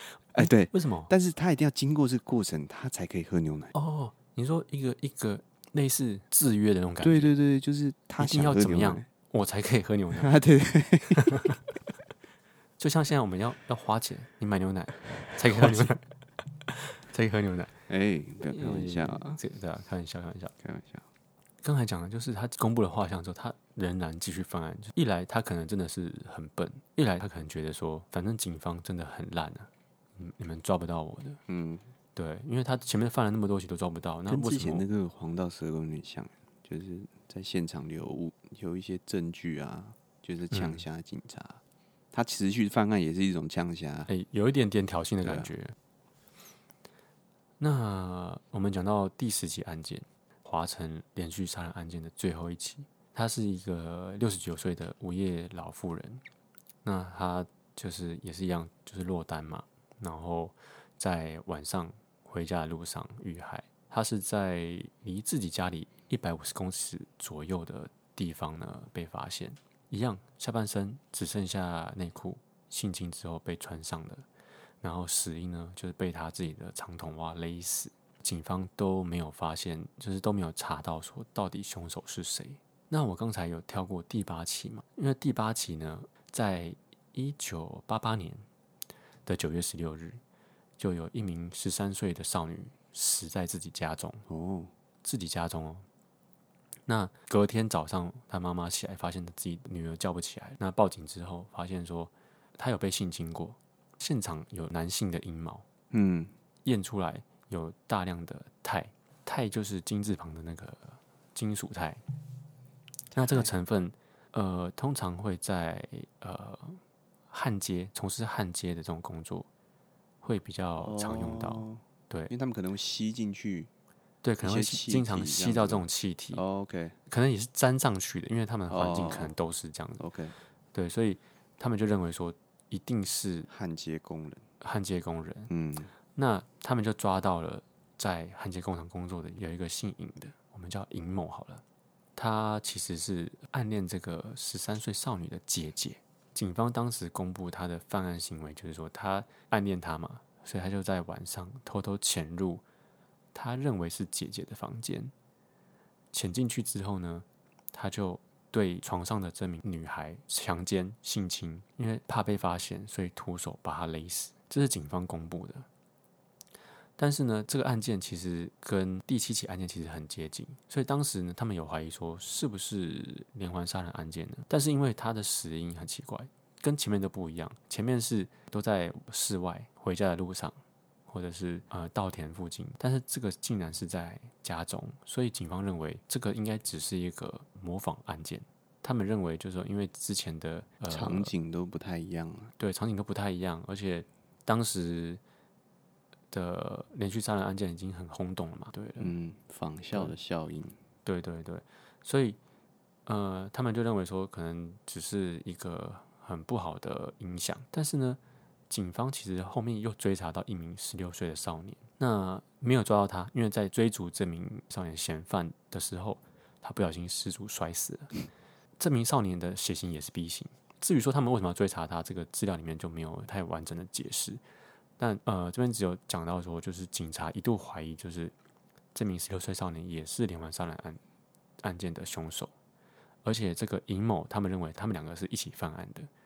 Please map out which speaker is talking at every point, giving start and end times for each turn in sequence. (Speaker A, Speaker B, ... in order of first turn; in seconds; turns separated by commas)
Speaker A: 0.3-1.1, Speaker B: 0.3-3.7, Speaker A: 3.7-7.3, Speaker B: 7.0-9.1, Speaker A: 8.2-10.3, Speaker B: 10.1-11.5, Speaker A: 11.2-11.6, Speaker A: 12.8-16.0, Speaker B: 15.2-15.8, Speaker A: 16.6-17.7, Speaker B: 17.9-19.4, Speaker A: 18.5-20.5, Speaker B: 20.6-21.0, Speaker A: 21.6-31.4, Speaker B: 31.5-31.9, Speaker A: 32.1-34.9, Speaker B: 34.3-41.6, Speaker A: 40.5-40.8, Speaker B: 42.1-44.1, Speaker A: 44.1-45.7, Speaker B: 45.2-45.5, Speaker A: 47.6-56.2, Speaker A: 56.8-74.2, Speaker A: 74.8-88.5, Speaker A: 89.2-90.2, Speaker A: 90.8-94.2, Speaker B: 94.3-94.7, Speaker A: 95.0-95.8, Speaker A: 96.9-105.6, Speaker B: 105.9-106.3, Speaker A: 106.6-112.0, Speaker B: 113.1-113.5, Speaker A: 113.1-119.5, Speaker A: 120.2-122.3, Speaker B: 120.8-123.7, Speaker A: 124.2-126.4, Speaker B: 124.4-127.0, Speaker A: 127.1-130.0, Speaker B: 128.7-129.3, Speaker B: 130.0-130.3, Speaker A: 130.7-133.5, Speaker B: 133.5-134.4, Speaker A: 134.6-135.5, Speaker B: 135.5-135.9, Speaker A: 136.1-141.6, Speaker A: 142.2-152.6, Speaker A: 153.3-155.1, Speaker A: 156.1-165.7, Speaker A: 167.0-180.6, Speaker A: 181.1-191.3, Speaker B: 190.9-192.5, Speaker A: 192.6-195.2, Speaker A: 196.3-199.1, Speaker B: 199.0-200.8, Speaker A: 201.0-202.4, Speaker A: 203.1-218.1, Speaker A: 218.8-224.4, Speaker A: 225.0-228.3, Speaker A: 228.9-231.0, Speaker A: 231.6-232.5, Speaker A: 233.2-236.1